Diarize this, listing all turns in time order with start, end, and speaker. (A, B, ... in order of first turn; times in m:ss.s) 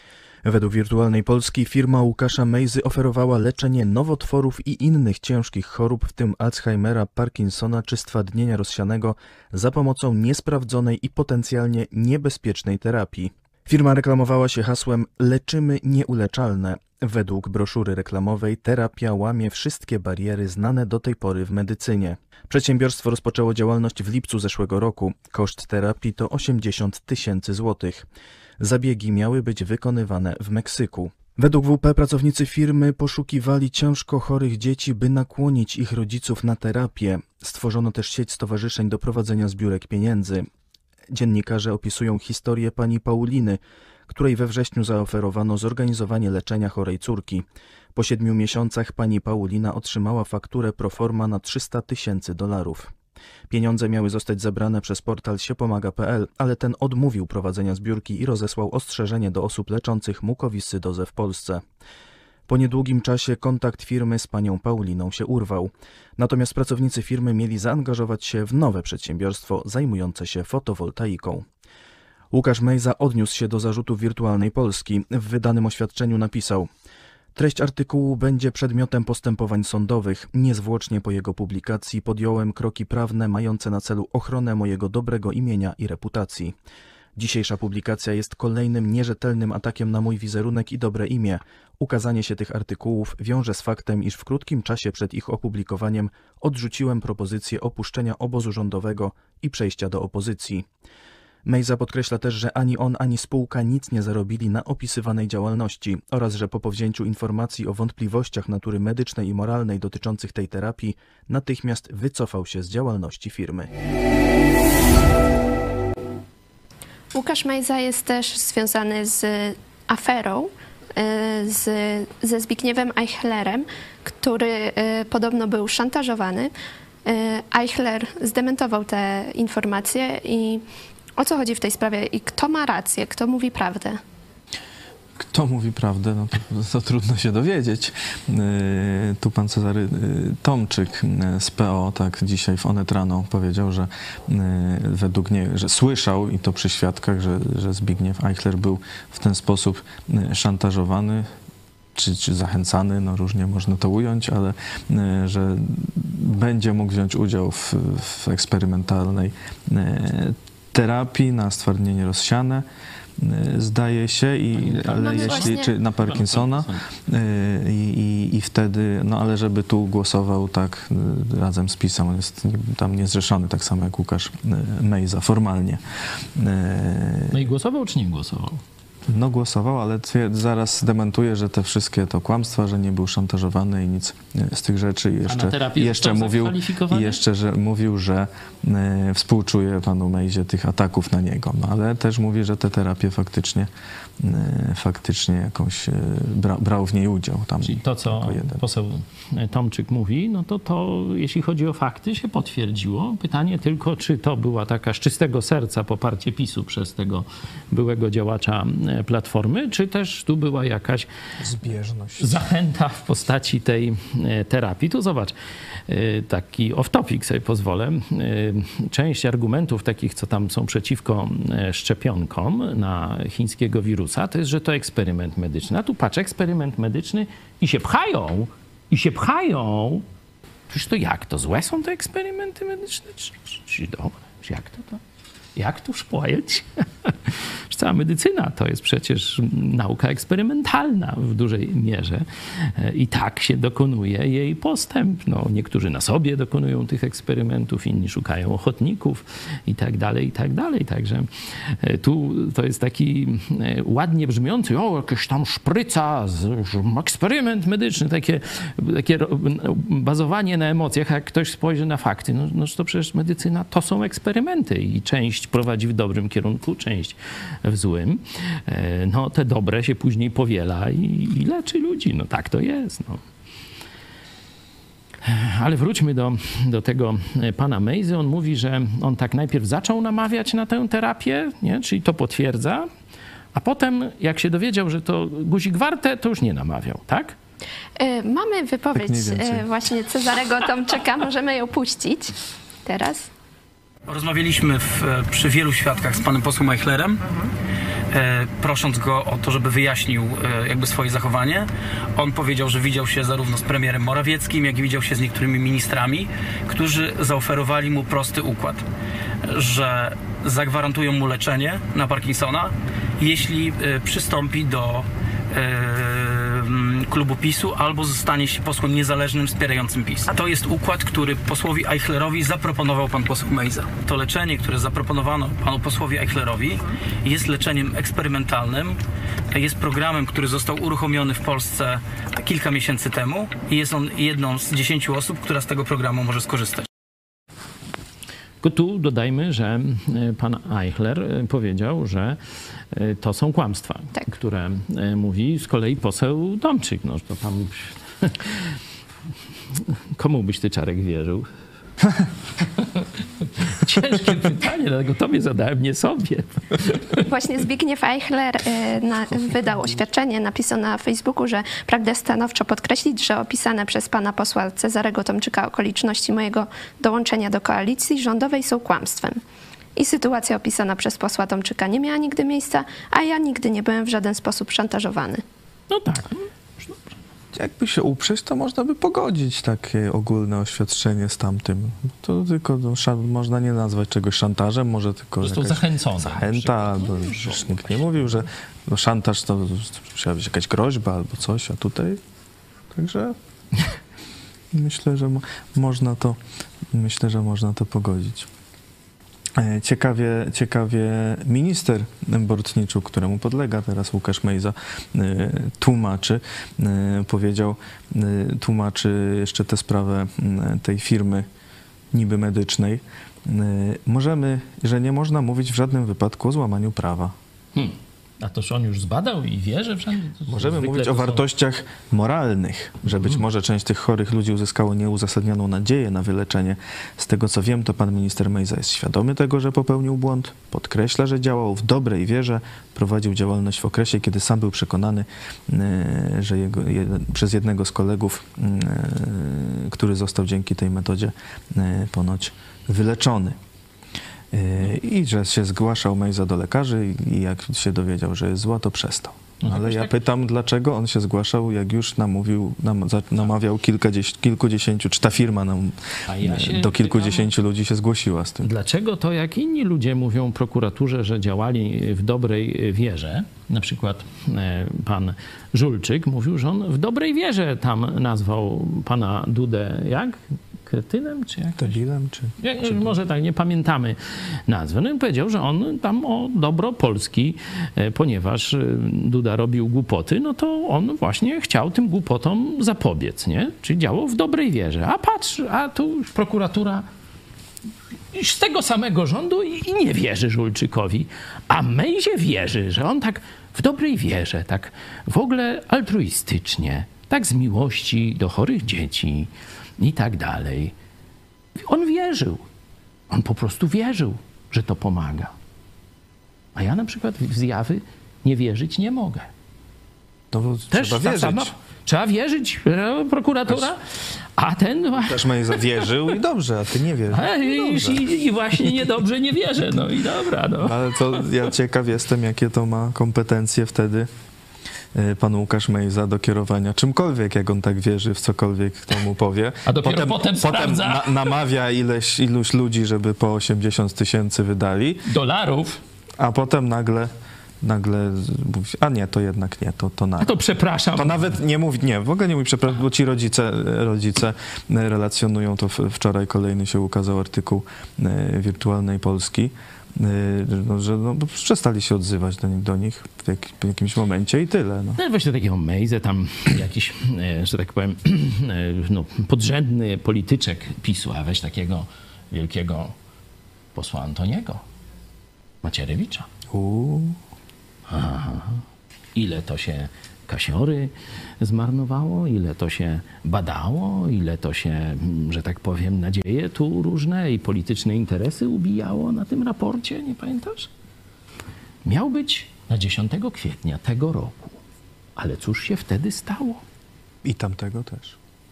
0:00.4-0:28.1 A
0:28.6-0:40.4 A
0:41.1-0:47.4 A
0:47.9-0:52.9 A
0:53.5-1:01.6 A
1:02.5-1:11.4 A
1:12.3-1:16.7 A
1:17.3-1:26.5 A
1:27.2-1:40.6 A
1:41.4-1:53.7 A
1:57.1-2:06.5 B
2:07.0-2:10.6 B
2:11.2-2:14.0 B
2:15.2-2:31.3 C
2:31.9-2:42.6 C
2:43.2-2:55.8 C
2:44.6-2:46.8 D
2:45.0-2:45.7 B
2:56.3-2:57.4 C
2:57.3-2:58.6 D
2:59.1-3:18.6 C
3:05.2-3:07.2 D
3:17.6-3:31.1 D
3:31.4-3:32.4 C
3:32.2-3:35.3 D
3:35.9-3:50.0 D
3:50.7-3:55.0 D
3:55.6-4:33.2 D
4:35.2-4:42.9 D
4:43.5-4:47.4 D
4:48.0-4:53.3 B
4:48.9-4:49.7 C
4:54.1-4:57.2 E
4:58.1-5:08.8 E
5:09.4-5:29.0 E
5:29.5-5:36.9 E
5:38.6-5:42.4 D
5:42.9-5:48.7 D
5:50.1-5:51.4 D
5:52.6-5:57.2 D
5:57.2-6:09.4 B
6:10.0-6:15.4 B
6:15.9-6:17.1 D
6:17.5-6:32.2 C
6:25.4-6:28.4 D
6:32.9-6:33.4 C
6:34.7-6:36.4 C
6:36.9-6:38.5 C
6:39.6-6:51.5 C
6:52.1-6:57.3 C
6:57.7-7:01.5 D
7:00.4-7:23.6 C
7:24.5-7:38.7 C
7:29.6-7:30.1 D
7:36.3-7:37.5 D
7:38.6-7:52.0 D
7:51.8-7:53.2 C
7:52.6-8:07.0 D
8:08.3-8:20.9 D
8:21.8-8:22.6 D
8:23.3-8:25.5 D
8:26.7-8:29.5 D
8:30.5-8:31.7 C
8:30.9-8:34.0 D
8:34.6-8:36.1 D
8:35.2-8:38.3 C
8:37.3-8:41.4 D
8:40.8-8:44.3 C
8:45.1-8:55.3 C
8:49.8-8:51.5 D
8:55.3-8:56.0 D
8:56.4-9:00.6 C
9:00.4-9:01.6 D
9:01.1-9:15.2 C
9:15.2-9:23.1 D
9:23.9-9:24.8 D
9:25.8-9:26.5 D
9:26.7-9:27.4 C
9:28.1-9:28.8 D
9:29.3-9:40.9 D
9:42.0-9:44.8 D
9:45.4-9:46.8 D
9:47.4-9:48.4 C